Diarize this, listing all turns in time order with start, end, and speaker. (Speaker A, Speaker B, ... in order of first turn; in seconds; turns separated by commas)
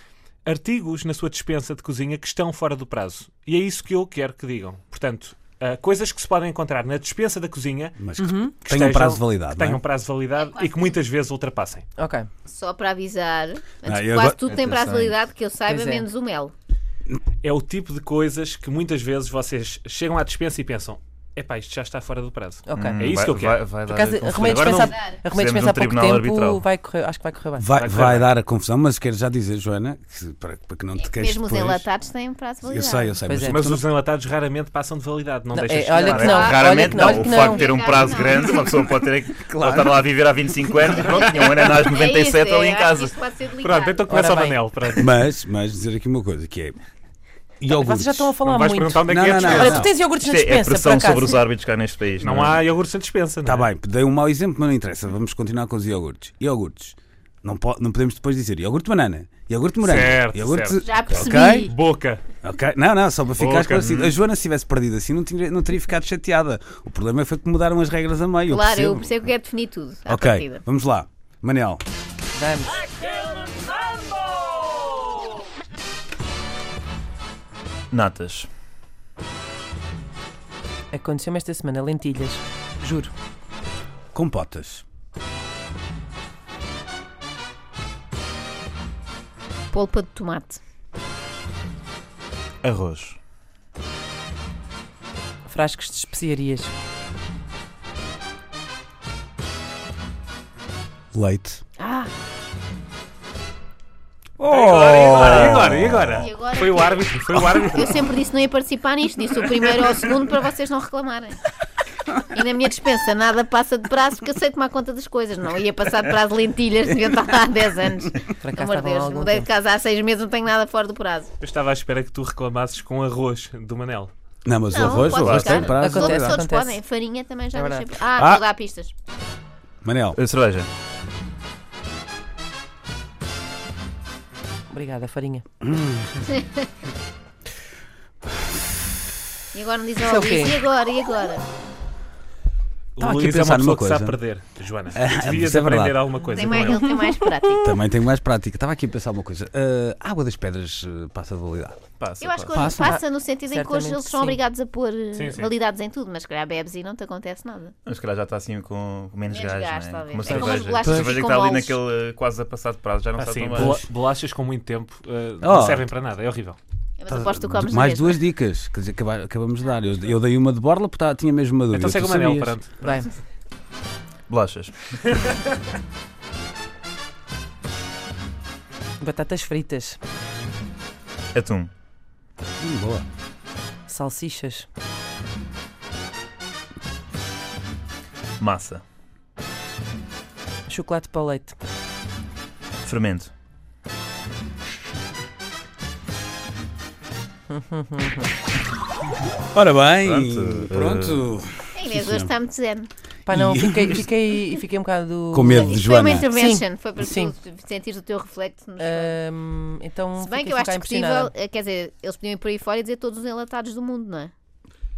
Speaker A: 0.5-8.0, Speaker B: 8.0-9.8, Speaker C: 8.2-8.6, Speaker A: 8.7-11.8, Speaker D: 10.3-11.0, Speaker C: 12.0-12.3, Speaker D: 12.5-16.5, Speaker B: 13.9-14.4, Speaker E: 14.4-15.2, Speaker C: 15.7-16.1, Speaker A: 17.4-23.6, Speaker C: 22.7-23.0, Speaker E: 22.8-26.6, Speaker C: 23.9-27.7, Speaker D: 24.8-25.2, Speaker B: 27.6-31.9, Speaker A: 27.8-28.3, Speaker D: 31.0-33.2, Speaker B: 32.6-33.8, Speaker C: 33.3-33.6, Speaker A: 33.5-36.5, Speaker C: 35.5-37.7, Speaker E: 36.1-43.2, Speaker D: 36.2-38.8, Speaker B: 39.5-40.0, Speaker C: 41.1-41.5, Speaker D: 41.1-44.1, Speaker A: 43.6-45.1, Speaker C: 44.1-44.6, Speaker B: 45.0-46.8, Speaker B: 47.6-48.4, Speaker C: 47.7-51.5, Speaker A: 48.4-49.9, Speaker B: 49.1-49.9, Speaker E: 50.1-52.6, Speaker A: 52.2-53.7, Speaker B: 53.4-61.7, Speaker A: 59.8-62.2, Speaker D: 60.8-61.7, Speaker B: 62.4-69.2, Speaker A: 63.4-64.1, Speaker E: 63.8-64.1, Speaker D: 68.5-70.6, Speaker B: 70.1-71.8, Speaker C: 72.3-72.8, Speaker E: 77.9-78.5, Speaker C: 80.9-83.1, Speaker B: 84.1-84.8, Speaker D: 89.7-90.6, Speaker E: 92.6-93.2, Speaker C: 95.5-96.7, Speaker B: 101.1-101.6, Speaker D: 101.8-102.1, Speaker B: 104.4-106.2, Speaker A: 104.4-108.0, Speaker E: 104.7-106.0, Speaker D: 106.1-111.4, Speaker D: 112.2-121.3, Speaker C: 118.4-119.5, Speaker A: 121.4-124.1, Speaker B: 124.5-126.4, Speaker D: 124.7-128.9, Speaker E: 125.2-125.7, Speaker C: 125.7-126.8, Speaker C: 127.5-127.9, Speaker B: 128.2-128.4, Speaker B: 129.8-130.2, Speaker E: 130.2-130.7, Speaker C: 134.7-135.4, Speaker B: 135.6-136.1, Speaker D: 136.3-136.6, Speaker D: 139.5-141.4, Speaker C: 140.0-140.6, Speaker A: 143.0-146.9, Speaker B: 143.0-144.2, Speaker B: 144.9-146.0, Speaker D: 146.3-147.8, Speaker B: 147.6-151.8, Speaker E: 152.0-152.7, Speaker D: 152.2-157.8, Speaker B: 152.5-153.0, Speaker C: 152.8-154.4, Speaker A: 155.2-155.5, Speaker E: 157.9-163.8, Speaker D: 159.3-161.8, Speaker B: 160.8-161.2, Speaker A: 163.2-166.6, Speaker B: 165.4-165.9, Speaker D: 167.0-168.2, Speaker B: 167.1-172.6, Speaker A: 171.7-172.7, Speaker C: 172.8-173.1, Speaker E: 174.3-175.1, Speaker C: 179.0-180.0, Speaker E: 181.3-181.7, Speaker B: 182.6-183.1, Speaker C: 183.9-184.7, Speaker E: 188.4-188.8, Speaker C: 190.7-191.6, Speaker E: 192.8-193.3, Speaker C: 197.5-198.3, Speaker B: 199.5-202.3, Speaker E: 200.0-201.3, Speaker D: 201.8-202.9, Speaker C: 203.3-205.8, Speaker B: 203.3-204.0, Speaker B: 205.3-206.3, Speaker D: 205.5-209.2, Speaker C: 206.3-207.3, Speaker C: 208.8-211.3, Speaker D: 210.2-214.3